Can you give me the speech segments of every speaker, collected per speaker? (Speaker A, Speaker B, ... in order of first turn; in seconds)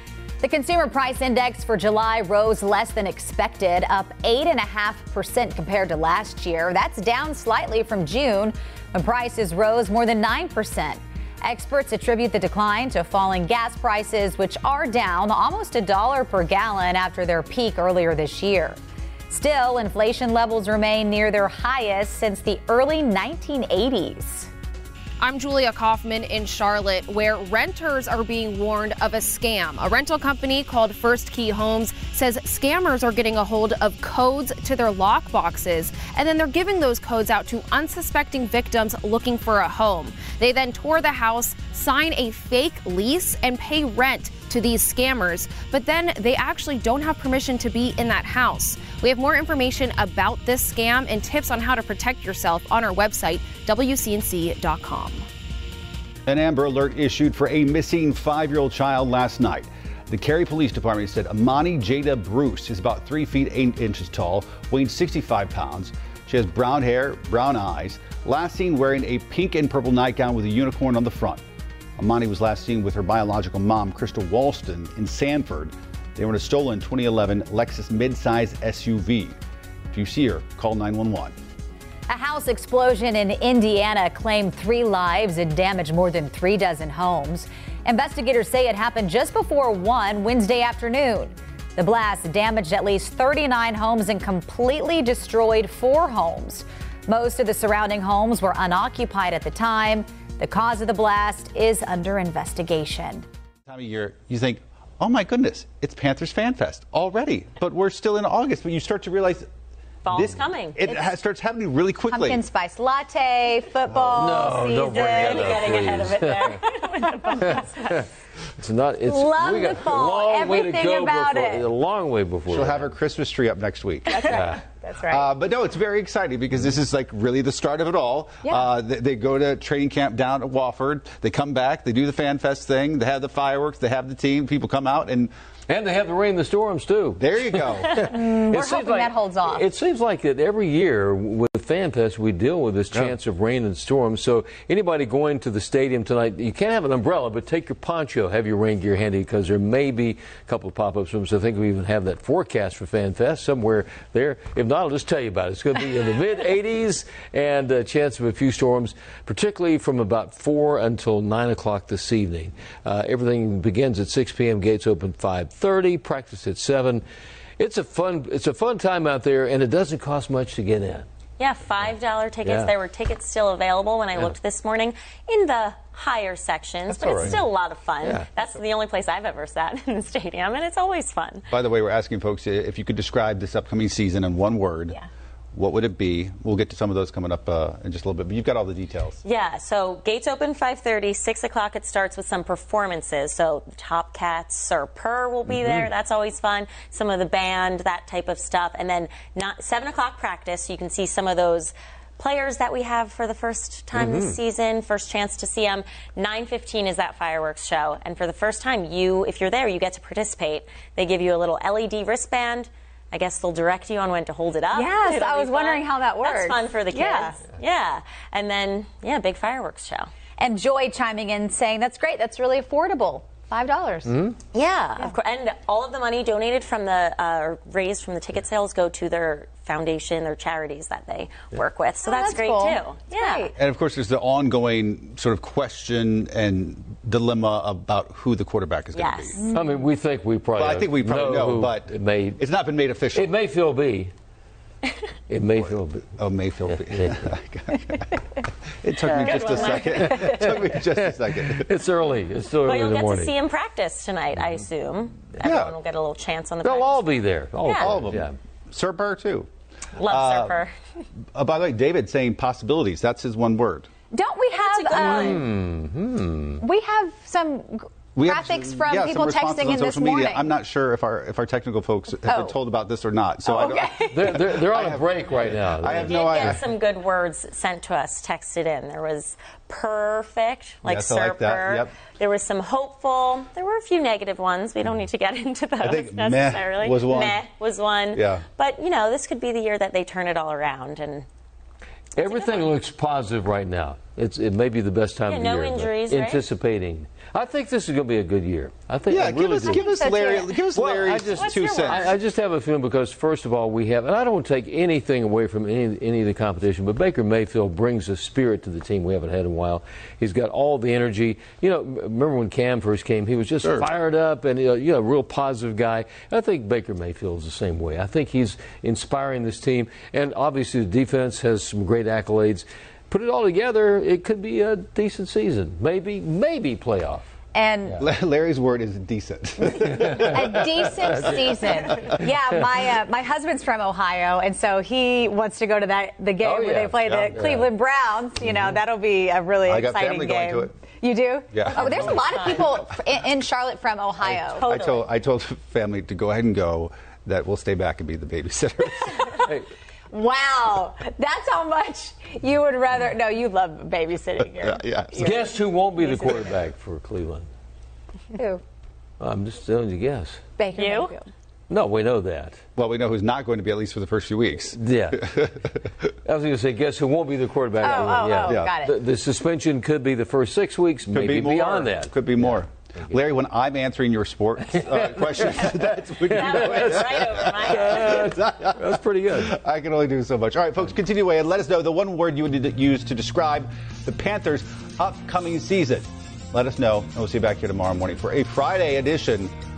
Speaker A: 0.4-18.8, 19.3-24.5, 82.1-103.2, 110.8-111.1, 112.1-115.7, 119.0-121.7, 124.1-125.3, 138.0-139.7, 214.7-217.3, 220.4-224.3, 232.0-233.5, 264.1-265.4, 266.6-270.5, 272.2-272.6, 273.4-274.3, 299.6-300.6, 327.5-328.0, 330.0-344.7, 350.1-355.4, 356.0-356.4, 358.3-358.6, 360.6-361.3, 367.8-369.0
Speaker B: 25.2-55.2
Speaker C: 56.3-71.4, 72.0-79.3, 79.9-81.3, 103.7-109.5, 110.1-112.4, 122.5-124.4, 125.0-135.3, 137.2-137.9, 176.9-177.3, 181.5-185.0, 185.5-189.2, 233.6-239.4, 240.6-243.3, 246.1-248.2, 248.8-251.7, 255.4-255.7, 257.7-259.5, 260.0-260.6, 261.3-263.9, 268.1-276.6, 280.9-281.9, 285.8-287.4, 288.1-288.4, 299.1-302.1, 328.0-331.4, 337.0-337.6, 339.6-340.8, 341.5-342.2, 344.2-349.4, 354.4-355.4, 362.8-365.5, 368.4-368.7, 371.1-389.5
Speaker D: 110.0-110.8, 115.0-118.0, 171.4-181.5, 189.2-220.1, 224.5-233.5, 238.9-239.4, 249.0-250.2, 252.6-257.1, 257.6-258.1, 259.9-260.7, 264.5-265.4, 275.9-291.3, 292.1-292.7, 295.3-296.4, 301.3-302.1, 341.7-342.7, 344.4-345.1, 360.7-361.1, 376.3-378.3
Speaker E: 114.1-116.6, 118.6-122.9, 124.3-124.6, 135.7-167.0, 167.6-171.1, 172.4-172.7, 178.0-178.3, 195.6-195.9, 203.9-204.3, 239.5-242.4, 243.1-244.1, 245.3-246.1, 246.7-247.2, 250.9-253.3, 256.6-258.3, 264.9-266.6, 274.1-276.6, 292.2-299.9, 300.7-327.3, 330.0-330.3, 331.2-332.2, 336.4-337.6, 355.2-357.5, 359.2-360.4, 361.7-362.6, 364.7-365.3, 366.2-372.2, 376.1-376.9, 377.6-379.6